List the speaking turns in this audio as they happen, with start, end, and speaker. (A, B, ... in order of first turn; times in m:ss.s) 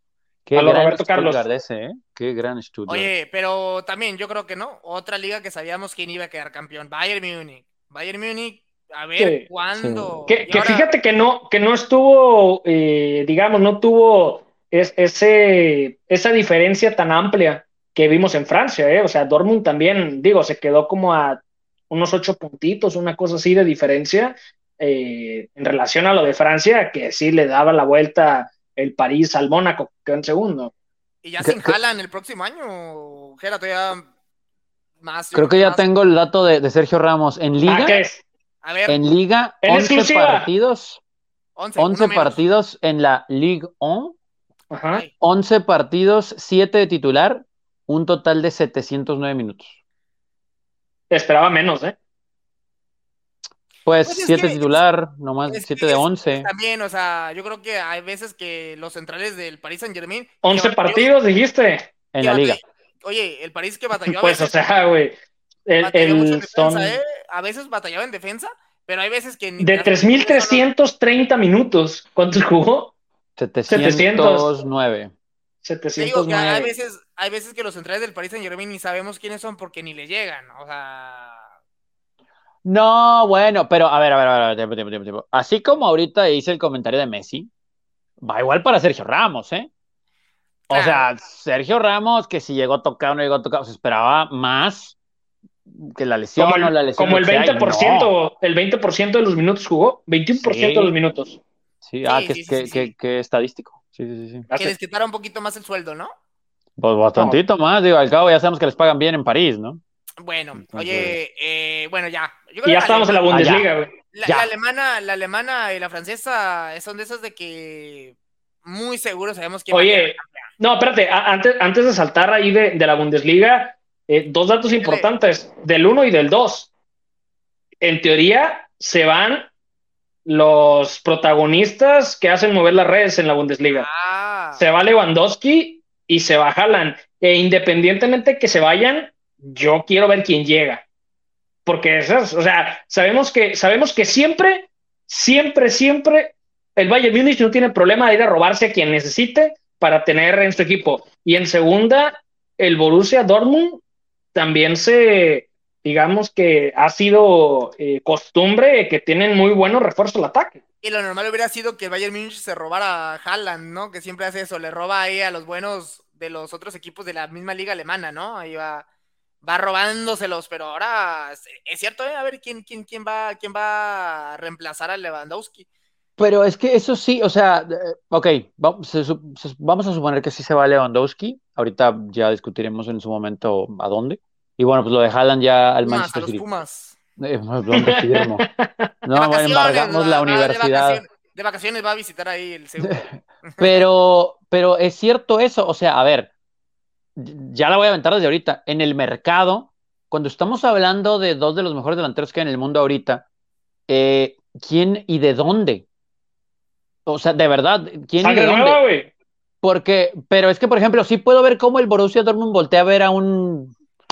0:00.4-0:03.1 A
0:00.5-0:01.4 B
0:02.9-0:10.9 C
0:09.2-0:09.5 B
0:09.7-0:10.2 A
0:10.3-0:30.7 B
0:31.2-0:34.1 C
0:31.4-0:31.8 A
0:35.0-0:35.8 C
0:35.3-0:38.0 A
0:37.6-0:38.2 B
0:38.6-0:39.0 C
0:38.9-0:41.0 A
0:39.6-0:40.5 B
0:41.6-0:42.4 C
0:41.8-0:44.1 A
0:44.7-0:45.0 B
0:45.2-0:49.7 A
0:51.1-0:52.0 B
0:53.8-0:56.5 A
0:54.0-0:54.8 C
0:55.5-1:01.1 C
1:00.4-1:01.9 B
1:02.1-1:02.6 A
1:02.2-1:04.5 C
1:04.1-1:07.0 B
1:05.8-1:10.7 C
1:09.6-1:12.9 B
1:13.4-1:15.1 A
1:13.7-1:14.5 B
1:15.6-1:16.7 B
1:16.0-1:21.5 C
1:22.6-1:27.5 A
1:28.2-1:29.7 A
1:30.7-1:31.1 C
1:30.7-1:35.0 A
1:35.7-1:38.1 A
1:36.4-1:41.4 B
1:40.4-1:40.9 A
1:41.8-1:44.5 A
1:42.0-1:42.9 C
1:44.5-1:44.7 B
1:44.6-1:46.1 C
1:46.8-1:49.8 A
1:50.2-1:53.3 C
1:50.6-1:51.2 A
1:52.6-1:53.9 B
1:53.3-1:53.7 A
1:54.1-2:00.5 C
1:59.7-2:06.7 B
2:04.8-2:05.1 C
2:07.8-2:09.5 B
2:10.2-2:13.9 B
2:13.7-2:14.6 C
2:14.6-2:20.8 B
2:21.6-2:33.8 B
2:34.3-2:40.6 B
2:40.8-2:48.8 C
2:49.4-2:55.6 C
2:56.2-3:06.4 A
3:05.8-3:07.0 C
3:07.2-3:08.4 A
3:07.7-3:08.9 B
3:09.0-3:11.0 A
3:09.1-3:13.8 C
3:12.8-3:16.3 A
3:17.2-3:23.2 A
3:23.9-3:25.8 A
3:27.0-3:28.8 A
3:28.2-3:29.1 B
3:29.6-3:33.7 A